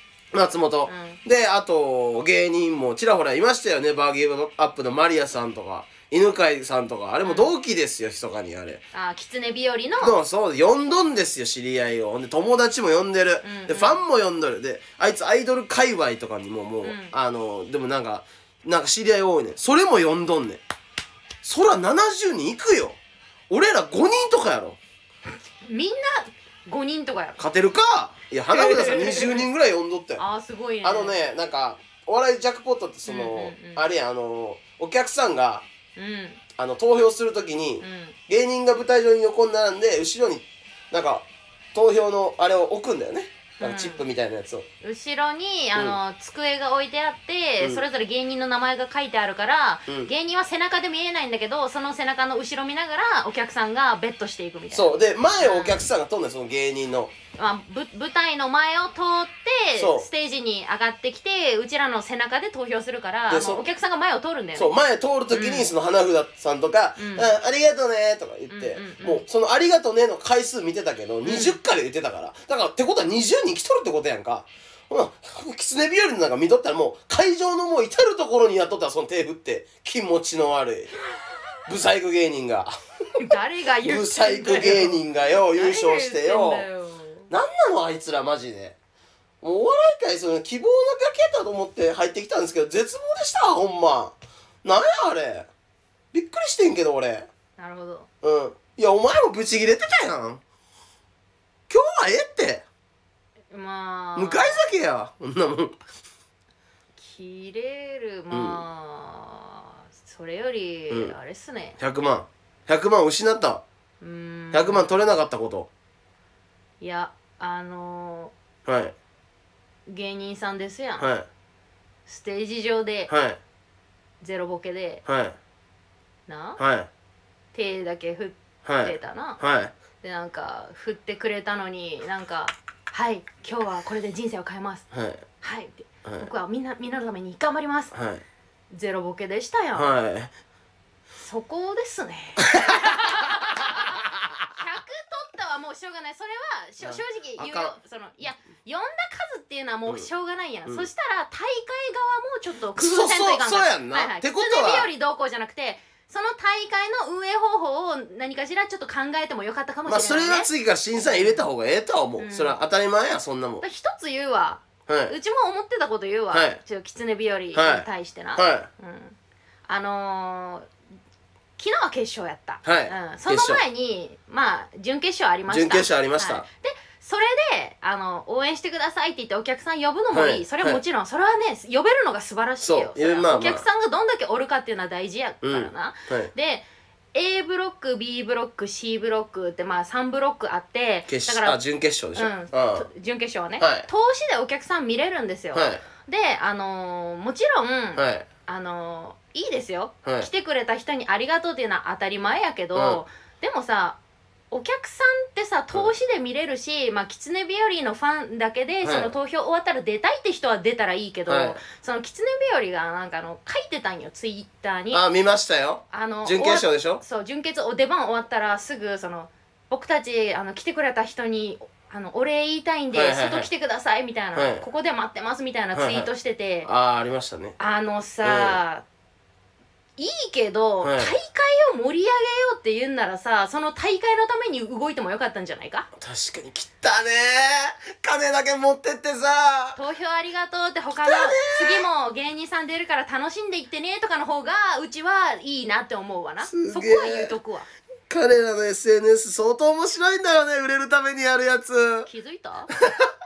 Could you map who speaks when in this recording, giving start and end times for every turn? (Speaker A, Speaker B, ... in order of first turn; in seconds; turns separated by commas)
Speaker A: 0.3-8.8, Speaker B: 0.9-1.2, Speaker B: 7.2-7.5, Speaker B: 8.9-10.2, Speaker A: 10.0-20.6, Speaker B: 13.4-14.0, Speaker B: 16.8-17.1, Speaker A: 21.4-23.0, Speaker A: 23.5-24.8, Speaker B: 25.6-27.4, Speaker A: 27.4-30.2, Speaker B: 28.5-29.5, Speaker B: 30.2-31.1, Speaker A: 30.8-35.6, Speaker B: 33.0-33.8, Speaker B: 36.0-36.4, Speaker A: 36.6-44.7, Speaker B: 37.8-38.1, Speaker B: 43.6-44.0, Speaker B: 44.8-55.8, Speaker A: 54.7-57.1, Speaker B: 57.4-64.7, Speaker A: 59.8-60.1, Speaker A: 63.3-63.6, Speaker A: 64.5-81.0, Speaker B: 65.3-65.7, Speaker B: 67.0-67.3, Speaker B: 68.5-69.2, Speaker B: 71.2-71.6, Speaker A: 81.6-82.7, Speaker B: 83.2-87.3, Speaker A: 83.8-86.6, Speaker A: 87.3-88.8, Speaker A: 89.4-95.5, Speaker A: 96.1-97.3, Speaker B: 97.6-98.1, Speaker A: 98.2-100.4, Speaker A: 101.7-102.6, Speaker B: 103.5-104.6, Speaker A: 104.2-105.8, Speaker B: 107.0-111.8, Speaker A: 108.3-108.6, Speaker A: 110.9-111.1, Speaker A: 111.8-113.6, Speaker B: 114.0-115.0, Speaker A: 114.5-115.7, Speaker B: 116.8-118.3, Speaker A: 118.7-118.9, Speaker B: 119.9-121.1, Speaker A: 121.0-121.3, Speaker B: 122.1-123.1, Speaker A: 123.1-123.4, Speaker B: 124.2-125.0, Speaker A: 125.0-125.4, Speaker B: 126.3-126.6, Speaker A: 126.6-126.9, Speaker B: 127.5-129.4, Speaker A: 128.6-129.7, Speaker B: 130.0-134.9, Speaker A: 134.9-135.2, Speaker B: 135.4-137.9, Speaker A: 137.9-138.2, Speaker B: 138.7-139.9, Speaker A: 139.7-140.3, Speaker B: 141.2-161.4, Speaker A: 142.4-144.1, Speaker A: 146.8-147.7, Speaker A: 152.8-154.9, Speaker A: 159.8-163.6, Speaker B: 162.2-162.6, Speaker B: 163.6-169.2, Speaker A: 164.9-165.1, Speaker A: 166.3-166.6, Speaker A: 167.5-168.7, Speaker B: 169.7-170.7, Speaker B: 171.6-191.6, Speaker A: 172.6-173.6, Speaker A: 175.5-176.4, Speaker A: 180.1-180.8, Speaker A: 182.6-183.6, Speaker A: 185.4-186.3, Speaker A: 191.1-192.9, Speaker B: 192.1-204.0, Speaker A: 193.6-193.9, Speaker A: 195.5-195.8, Speaker A: 197.9-198.2, Speaker A: 200.0-200.3, Speaker A: 202.7-203.0, Speaker B: 204.5-215.0, Speaker A: 208.8-209.1, Speaker A: 211.3-211.6, Speaker A: 214.9-217.0, Speaker B: 215.9-226.7, Speaker A: 222.9-223.5, Speaker A: 224.3-224.6, Speaker A: 225.7-226.1, Speaker A: 226.6-227.6, Speaker B: 227.6-228.8, Speaker A: 228.2-228.6, Speaker B: 230.0-235.9, Speaker A: 230.8-231.2, Speaker A: 235.9-239.8, Speaker B: 239.8-247.7, Speaker A: 241.0-241.8, Speaker A: 246.4-247.3, Speaker A: 248.1-252.1, Speaker B: 252.1-252.7